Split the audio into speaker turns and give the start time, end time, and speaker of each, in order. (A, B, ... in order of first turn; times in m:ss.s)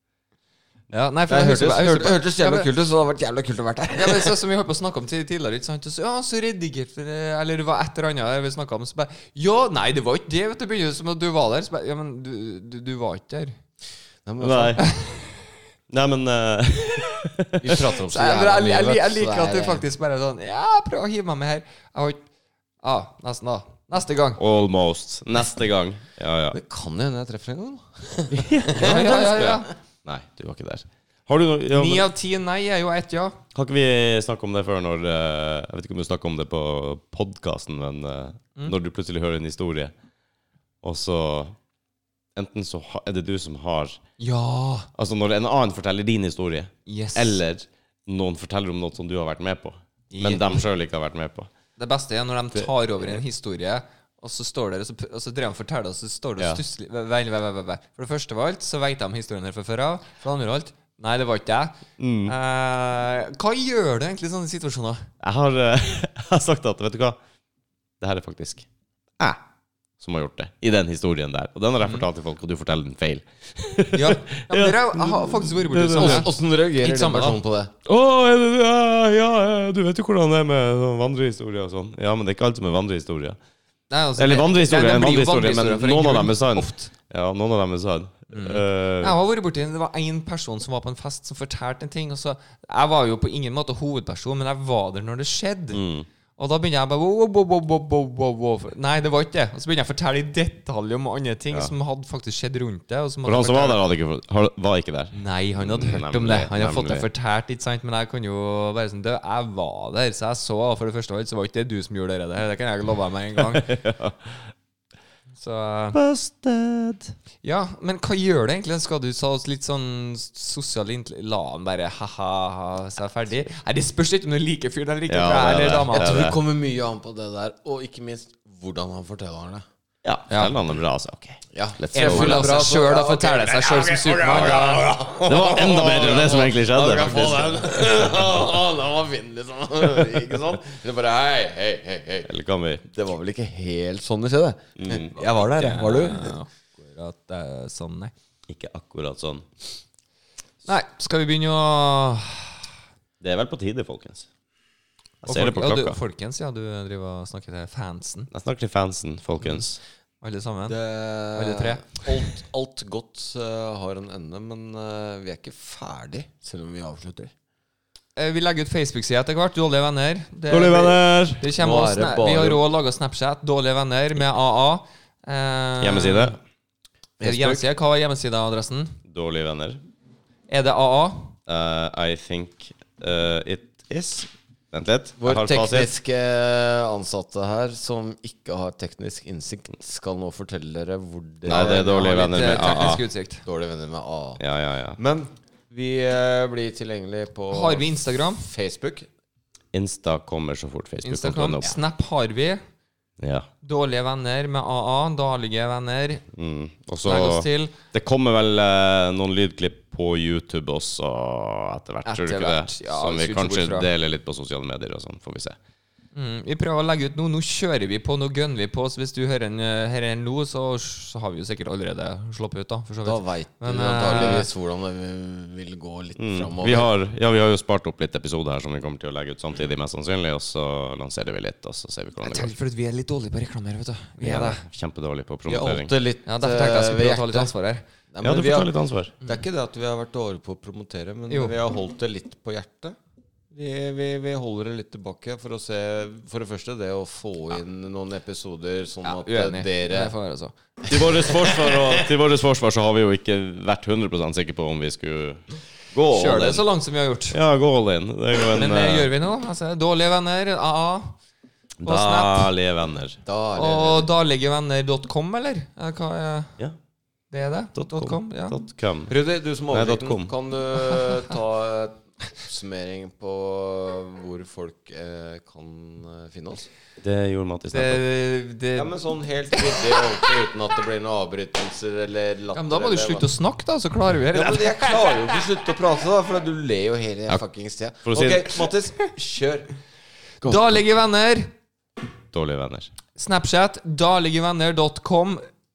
0:00.9-0:02.7 A
0:01.3-0:04.4 B
0:04.0-0:13.5 A
0:14.2-0:14.8 B
0:14.4-0:14.9 C
0:14.8-0:15.3 A
0:15.9-0:17.8 C
0:17.6-0:19.8 B
0:18.1-0:22.2 A
0:22.8-0:24.4 A
0:24.4-0:26.6 C
0:26.5-0:29.6 B
0:28.3-0:32.1 C
0:28.8-0:29.7 A
0:31.7-0:33.4 A
0:33.5-0:39.9 C
0:40.8-0:41.5 C
0:42.3-0:44.0 C
0:44.2-0:44.9 A
0:44.9-0:51.5 C
0:46.8-0:47.4 A
0:50.1-0:50.6 A
0:51.8-1:05.1 A
0:52.5-0:53.2 C
1:02.0-1:02.3 C
1:05.2-1:07.2 C
1:08.0-1:08.7 C
1:10.0-1:16.3 C
1:13.9-1:16.3 A
1:16.0-1:17.7 B
1:16.8-1:17.4 A
1:17.8-1:23.4 C
1:23.9-1:26.9 A
1:24.2-1:29.2 C
1:28.3-1:35.8 A
1:35.7-1:36.1 C
1:36.4-1:43.8 A
1:43.2-1:47.1 C
1:45.1-1:53.7 A
1:53.4-1:54.5 C
1:55.4-1:56.0 A
1:55.9-1:57.1 C
1:57.4-2:06.2 A
2:05.1-2:06.4 C
2:05.9-2:09.6 B
2:10.0-2:12.5 C
2:10.3-2:10.6 A
2:11.5-2:22.3 B
2:11.9-2:14.9 A
2:15.2-2:18.2 C
2:22.2-2:22.8 C
2:22.9-2:26.4 B
2:24.8-2:25.2 C
2:25.3-2:28.1 A
2:28.5-2:29.4 C
2:30.6-2:32.6 A
2:33.2-2:34.3 C
2:35.2-2:36.0 C
2:35.2-2:38.3 A
2:38.3-2:39.8 C
2:40.2-2:40.8 A
2:40.7-2:47.3 B
2:41.3-2:42.2 A
2:48.2-2:56.4 A
2:50.5-2:51.4 C
2:51.6-2:52.6 B
2:55.8-2:56.4 C
2:57.2-2:57.6 B
2:57.2-2:59.0 A
2:59.0-2:59.8 C
3:00.5-3:01.3 A
3:01.5-3:05.9 C
3:05.2-3:12.0 B
3:11.4-3:13.0 C
3:11.7-3:13.4 A
3:13.4-3:14.4 B
3:14.4-3:15.0 C
3:15.0-3:19.1 B
3:17.5-3:18.4 A
3:19.7-3:21.8 C
3:21.0-3:22.6 A
3:23.2-3:23.5 C
3:23.6-3:26.2 A
3:26.3-3:35.6 C
3:27.0-3:27.8 A
3:32.0-3:33.9 A
3:36.1-3:44.5 A
3:43.0-3:46.9 B
3:46.2-3:52.5 C
3:52.2-3:54.6 A
3:54.2-3:55.9 C
3:55.5-3:57.5 B
3:56.2-3:57.8 A
3:58.1-4:03.0 B
3:58.2-3:59.1 C
4:01.3-4:01.6 A
4:03.5-4:10.1 B
4:09.0-4:10.5 A
4:10.9-4:12.1 B
4:10.9-4:15.4 C
4:15.9-4:16.6 B
4:16.1-4:17.4 A
4:16.3-4:16.6 C
4:17.3-4:19.1 C
4:18.5-4:21.2 A
4:21.8-4:23.2 C
4:21.8-4:22.5 A
4:23.2-4:24.1 B
4:23.6-4:26.5 A
4:27.3-4:28.6 A
4:27.8-4:29.1 C
4:29.1-4:36.7 B
4:29.7-4:30.3 C
4:30.9-4:31.3 A
4:37.0-4:38.0 C
4:37.7-4:38.9 A
4:38.8-4:43.3 B
4:39.5-4:40.3 A
4:42.5-4:45.4 A
4:44.3-4:49.7 B
4:48.0-4:48.6 C
4:50.4-4:51.5 A
4:50.4-4:50.8 B
4:52.3-4:52.9 C
4:53.2-4:55.4 A